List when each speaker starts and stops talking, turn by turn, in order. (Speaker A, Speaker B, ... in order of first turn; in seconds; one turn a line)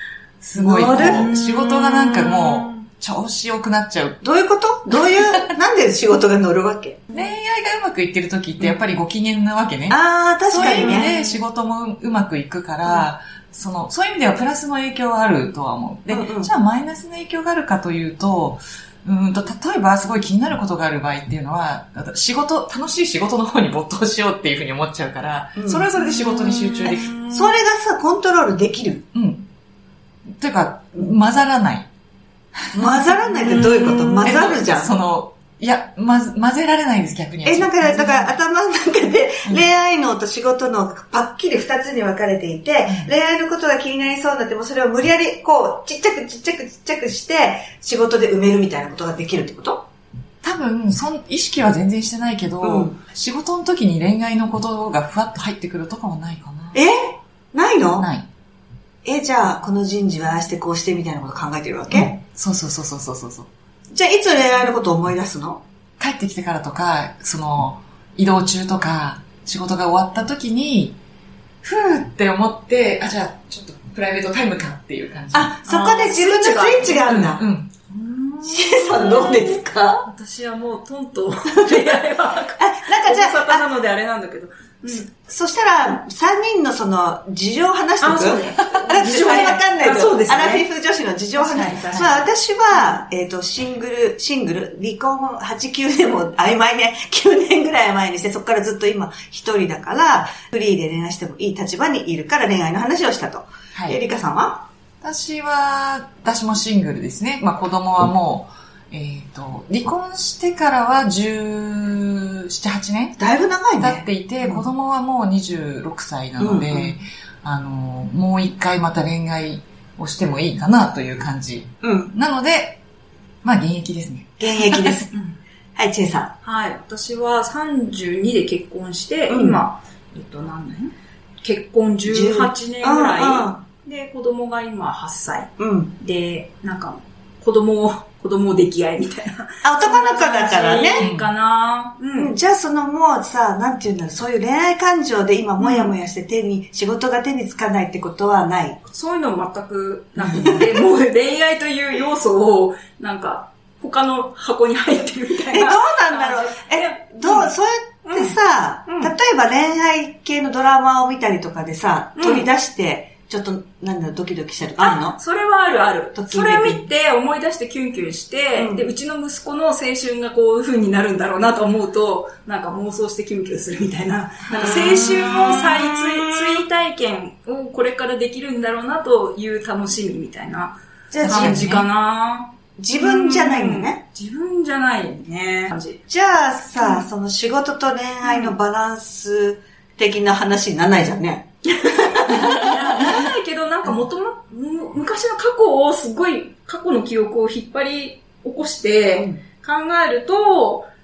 Speaker A: 0.4-4.2
Speaker B: 0.5-1.3
Speaker C: 0.8-2.8
Speaker B: 4.2-7.0
Speaker A: 4.9-5.4
Speaker A: 7.1-27.1
Speaker B: 9.9-11.1
Speaker C: 10.7-11.4
Speaker B: 16.1-16.5
Speaker B: 25.6-25.9
Speaker C: 25.9-27.5
Speaker B: 27.3-29.0
Speaker A: 29.1-29.4
Speaker A: 30.4-31.9
Speaker A: 32.6-33.1
Speaker B: 32.7-34.9
Speaker C: 33.4-34.2
Speaker A: 34.2-38.4
Speaker B: 37.4-49.8
Speaker A: 42.8-43.1
Speaker A: 50.4-56.8
Speaker B: 52.6-53.0
Speaker B: 56.7-58.1
Speaker A: 58.0-58.3
Speaker B: 59.0-62.2
Speaker A: 61.9-63.5
Speaker B: 63.9-65.6
Speaker A: 66.0-71.0
Speaker A: 71.6-75.5
Speaker B: 75.3-77.4
Speaker C: 75.6-77.0
Speaker A: 77.0-77.7
Speaker C: 77.9-85.1
Speaker B: 78.4-80.1
Speaker B: 82.6-83.6
Speaker B: 84.9-104.6
Speaker C: 88.0-90.6
Speaker C: 91.3-93.0
Speaker A: 105.0-113.2
Speaker B: 113.2-114.7
Speaker A: 113.8-122.8
Speaker B: 116.4-117.0
Speaker B: 121.8-122.1
Speaker A: 123.4-125.0
Speaker B: 124.4-125.1
Speaker C: 125.1-125.4
Speaker B: 125.8-126.3
Speaker C: 126.4-142.3
Speaker B: 129.3-129.6
Speaker B: 132.0-133.6
Speaker B: 135.6-135.9
Speaker B: 139.6-141.0
Speaker A: 141.0-141.3
Speaker B: 142.2-148.8
Speaker C: 145.6-145.9
Speaker C: 148.8-157.5
Speaker B: 150.2-150.7
Speaker B: 155.5-165.2
Speaker C: 158.0-158.3
Speaker C: 158.9-159.1
Speaker C: 162.2-162.5
Speaker C: 164.8-186.0
Speaker B: 166.1-166.9
Speaker B: 168.6-168.8
Speaker B: 174.5-176.6
Speaker B: 181.1-181.8
Speaker A: 181.2-181.8
Speaker B: 182.8-184.0
Speaker B: 186.1-193.2
Speaker C: 186.8-187.1
Speaker C: 188.2-188.6
Speaker C: 191.8-200.9